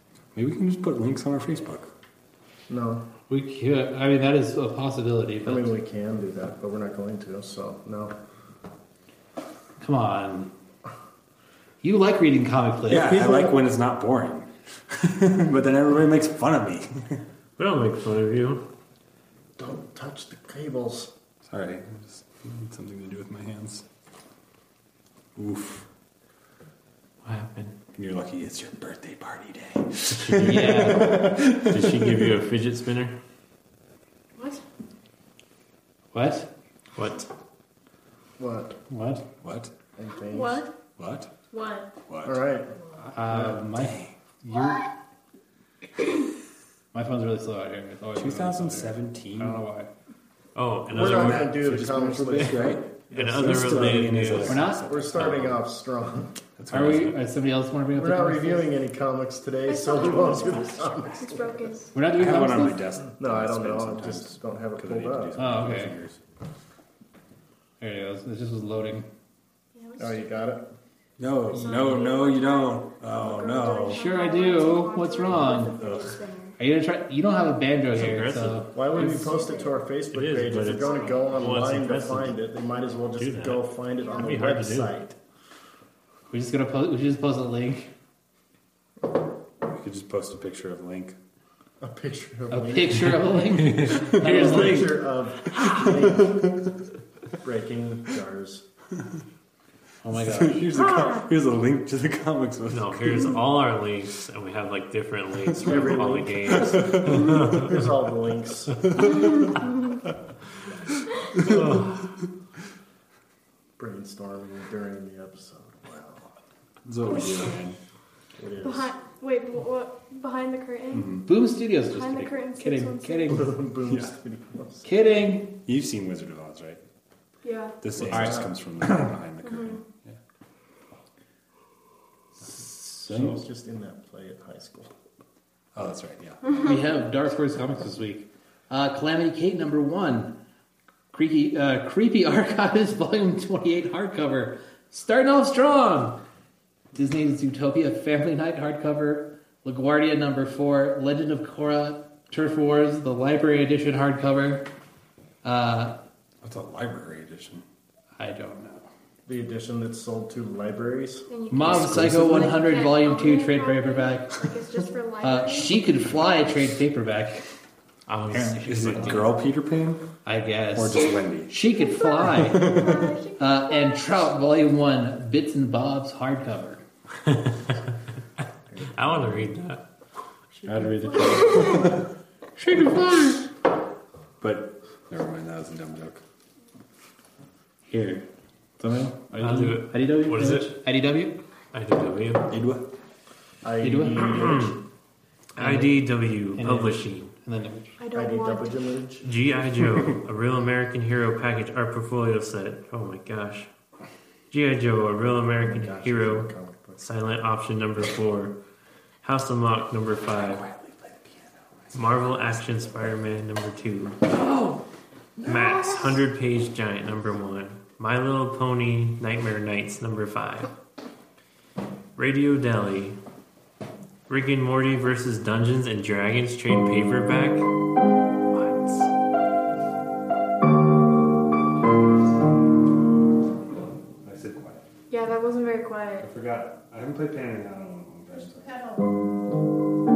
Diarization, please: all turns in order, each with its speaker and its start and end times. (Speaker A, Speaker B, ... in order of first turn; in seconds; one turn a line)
Speaker A: 0.3-1.9
Speaker B: 2.7-3.0
Speaker C: 3.3-5.7
Speaker B: 5.4-8.1
Speaker C: 9.8-10.5
Speaker C: 11.8-13.2
Speaker A: 12.9-17.2
Speaker B: 13.0-13.5
Speaker D: 17.6-18.6
Speaker B: 19.6-21.1
Speaker A: 21.5-23.8
Speaker A: 25.4-25.9
Speaker D: 27.2-27.7
Speaker A: 27.9-32.3
Speaker D: 30.1-33.1
Speaker C: 30.4-31.4
Speaker E: 34.4-34.6
Speaker C: 36.1-36.5
Speaker D: 37.0-37.3
Speaker B: 38.4-38.8
Speaker C: 38.9-39.2
Speaker A: 39.4-39.7
Speaker B: 40.0-40.6
Speaker E: 40.2-40.7
Speaker A: 41.0-41.3
Speaker E: 41.5-41.9
Speaker A: 42.1-42.4
Speaker B: 42.2-42.7
Speaker C: 43.0-44.9
Speaker B: 43.3-43.6
Speaker C: 46.9-49.9
Speaker A: 48.1-49.6
Speaker D: 50.5-51.6
Speaker B: 50.9-56.3
Speaker A: 50.9-55.6
Speaker D: 53.1-54.6
Speaker C: 54.5-54.9
Speaker A: 56.6-57.1
Speaker C: 56.7-58.7
Speaker B: 58.0-61.4
Speaker E: 59.7-61.9
Speaker C: 61.9-62.8
Speaker A: 62.1-66.2
Speaker B: 63.2-65.3
Speaker C: 65.4-65.9
Speaker C: 67.8-69.1
Speaker E: 69.8-70.2
Speaker B: 70.0-70.6
Speaker A: 71.2-74.0
Speaker E: 71.5-76.5
Speaker C: 73.9-75.7
Speaker A: 75.5-76.1
Speaker C: 76.6-79.1
Speaker D: 77.9-78.7
Speaker B: 78.7-85.1
Speaker E: 78.9-79.8
Speaker D: 80.1-82.4
Speaker E: 80.8-81.6
Speaker D: 83.2-84.9
Speaker C: 86.3-87.9
Speaker A: 89.7-91.2
Speaker B: 91.8-93.3
Speaker C: 92.5-95.0
Speaker B: 94.0-96.6
Speaker A: 95.7-96.7
Speaker B: 97.4-98.6
Speaker C: 100.0-100.7
Speaker A: 100.1-103.4
Speaker E: 100.7-101.2
Speaker D: 102.7-107.8
Speaker B: 105.6-109.0
Speaker A: 106.5-107.8
Speaker A: 109.0-109.5
Speaker E: 109.1-109.7
Speaker A: 111.3-111.8
Speaker D: 111.4-111.9
Speaker B: 113.8-116.3
Speaker A: 116.8-117.8
Speaker E: 117.1-117.5
Speaker B: 118.4-118.9
Speaker E: 118.6-121.2
Speaker A: 120.9-121.2
Speaker C: 121.2-123.5
Speaker E: 121.9-123.5
Speaker B: 123.3-124.8
Speaker C: 124.8-125.5
Speaker A: 125.6-126.8
Speaker E: 127.4-127.8
Speaker A: 127.8-130.2
Speaker B: 128.0-128.5
Speaker C: 128.0-128.4
Speaker E: 129.4-129.8
Speaker C: 132.5-133.4
Speaker B: 133.1-134.9
Speaker A: 135.7-136.4
Speaker C: 136.6-140.3
Speaker C: 141.1-146.2
Speaker C: 146.9-154.7
Speaker C: 155.4-155.9
Speaker A: 156.4-157.6
Speaker C: 158.2-158.8
Speaker B: 159.2-161.3
Speaker E: 161.3-165.8
Speaker C: 161.5-164.3
Speaker A: 161.7-162.5
Speaker C: 165.2-167.4
Speaker D: 168.1-169.3
Speaker C: 168.3-169.3
Speaker A: 168.3-170.0
Speaker C: 170.2-176.8
Speaker A: 170.7-171.5
Speaker E: 171.7-174.1
Speaker A: 172.4-173.1
Speaker B: 178.7-179.4
Speaker D: 178.9-179.8
Speaker B: 180.5-180.9
Speaker C: 180.7-181.7
Speaker A: 181.1-182.0
Speaker E: 181.4-181.8
Speaker C: 182.6-183.4
Speaker A: 184.4-186.2
Speaker C: 187.9-188.2
Speaker C: 188.8-191.3
Speaker D: 189.4-190.7
Speaker D: 191.7-192.5
Speaker A: 192.5-192.8
Speaker B: 193.6-194.8
Speaker C: 193.8-194.5
Speaker D: 194.2-194.8
Speaker D: 195.6-197.3
Speaker C: 195.6-196.0
Speaker C: 196.5-198.0
Speaker E: 198.0-198.8
Speaker B: 198.1-199.2
Speaker D: 199.2-203.7
Speaker D: 204.5-208.5
Speaker B: 205.6-207.0
Speaker D: 209.2-210.6
Speaker A: 210.3-212.6
Speaker D: 211.9-214.2
Speaker C: 214.4-214.8
Speaker D: 215.4-220.7
Speaker E: 215.5-216.0
Speaker D: 222.2-223.2
Speaker D: 224.3-227.7
Speaker D: 228.5-229.1
Speaker A: 234.2-234.8
Speaker E: 235.1-236.3
Speaker A: 236.2-238.7
Speaker E: 238.6-239.0